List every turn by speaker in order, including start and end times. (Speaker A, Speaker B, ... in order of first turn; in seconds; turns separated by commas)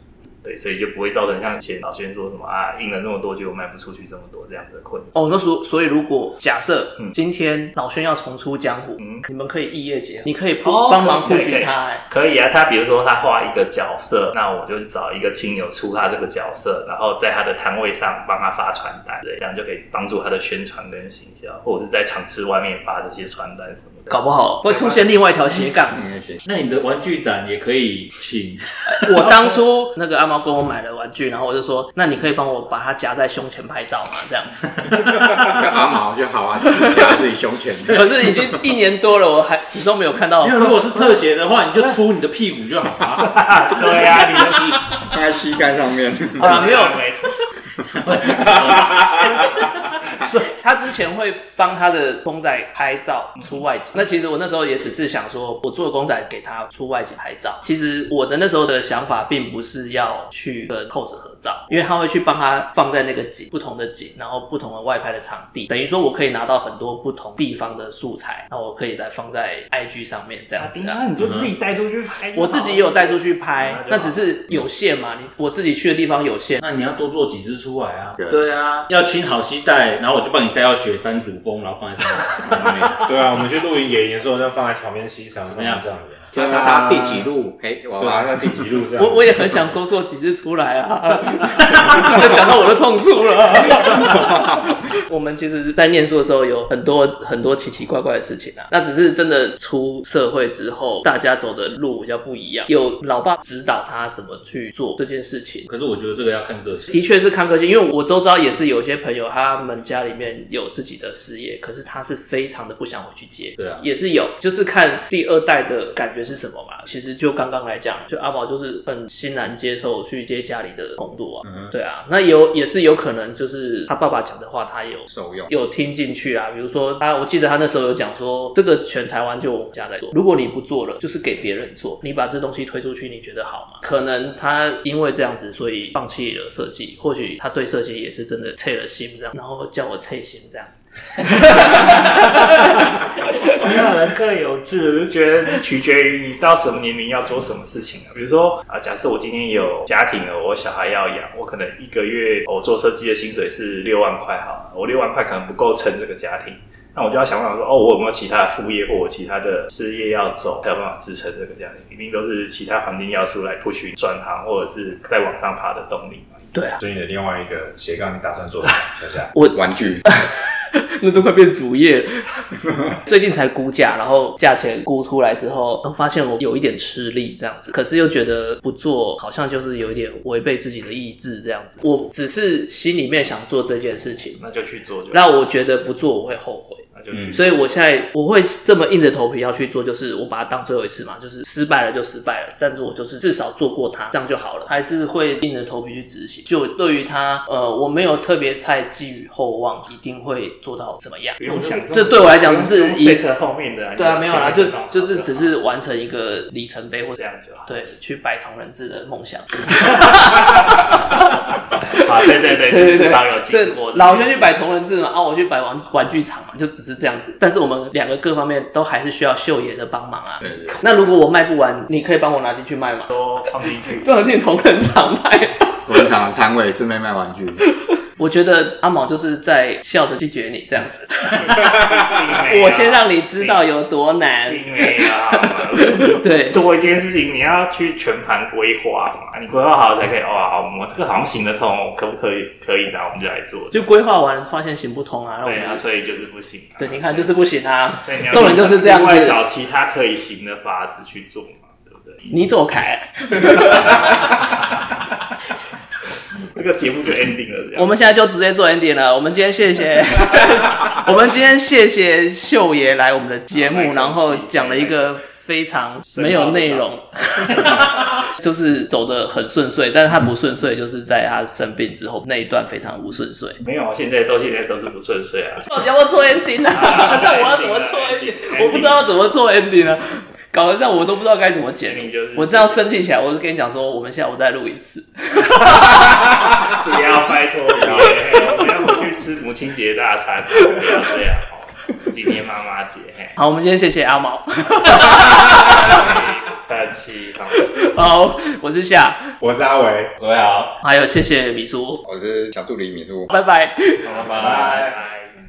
Speaker A: 0.4-5.1, Speaker B: 5.1-12.0, Speaker A: 9.0-9.3, Speaker A: 10.6-25.1, Speaker B: 24.1-26.0, Speaker C: 25.9-26.4, Speaker D: 26.4-29.1, Speaker B: 28.9-34.7, Speaker C: 35.3-38.6, Speaker B: 37.9-41.2, Speaker D: 40.4-43.4, Speaker A: 43.2-44.9, Speaker C: 45.0-46.8, Speaker B: 46.4-47.0, Speaker A: 46.4-47.4, Speaker D: 47.9-49.7, Speaker A: 49.1-49.5, Speaker B: 50.3-71.0, Speaker A: 70.6-74.2, Speaker D: 71.2-71.5, Speaker B: 72.3-76.6, Speaker D: 76.6-83.0, Speaker C: 78.2-78.5, Speaker C: 82.5-83.0, Speaker E: 83.0-87.3, Speaker D: 85.5-85.9, Speaker C: 86.3-88.7, Speaker E: 88.0-89.8, Speaker B: 89.0-105.7, Speaker C: 93.9-94.6, Speaker D: 105.7-107.0, Speaker B: 106.9-143.7, Speaker D: 113.6-113.9, Speaker D: 121.4-121.7, Speaker C: 125.1-125.5, Speaker A: 141.5-166.5, Speaker B: 166.5-166.8, Speaker E: 166.8-169.3, Speaker B: 169.3-184.4, Speaker C: 169.5-170.1, Speaker A: 184.4-185.2, Speaker B: 185.1-203.2, Speaker A: 186.9-187.6, Speaker A: 201.4-205.5, Speaker B: 204.0-211.2, Speaker A: 207.2-207.8, Speaker A: 209.7-211.0, Speaker A: 211.9-214.5, Speaker B: 212.7-223.1, Speaker C: 220.4-221.0, Speaker A: 223.1-224.1, Speaker B: 224.0-225.8, Speaker C: 225.9-227.7, Speaker B: 227.8-231.9, Speaker A: 231.4-233.7, Speaker B: 232.5-236.6, Speaker A: 234.5-243.9, Speaker B: 243.7-245.8, Speaker A: 245.4-247.3, Speaker B: 246.8-249.4, Speaker A: 248.0-252.3, Speaker B: 252.3-254.5, Speaker A: 253.4-254.4, Speaker A: 256.5-258.0, Speaker B: 257.8-273.6, Speaker A: 263.5-265.0, Speaker A: 266.1-266.9, Speaker A: 267.4-268.2, Speaker A: 273.6-275.7, Speaker B: 275.7-286.4, Speaker A: 276.7-279.0, Speaker A: 281.9-282.9, Speaker A: 285.7-286.0, Speaker A: 286.7-293.4, Speaker B: 287.9-288.9, Speaker B: 293.4-296.1, Speaker E: 295.2-296.0, Speaker A: 295.6-297.8, Speaker B: 297.6-299.3, Speaker E: 299.4-300.2, Speaker D: 300.2-300.8, Speaker B: 300.8-302.0, Speaker C: 302.0-303.3, Speaker B: 303.3-304.5, Speaker A: 304.0-305.3, Speaker D: 304.2-304.9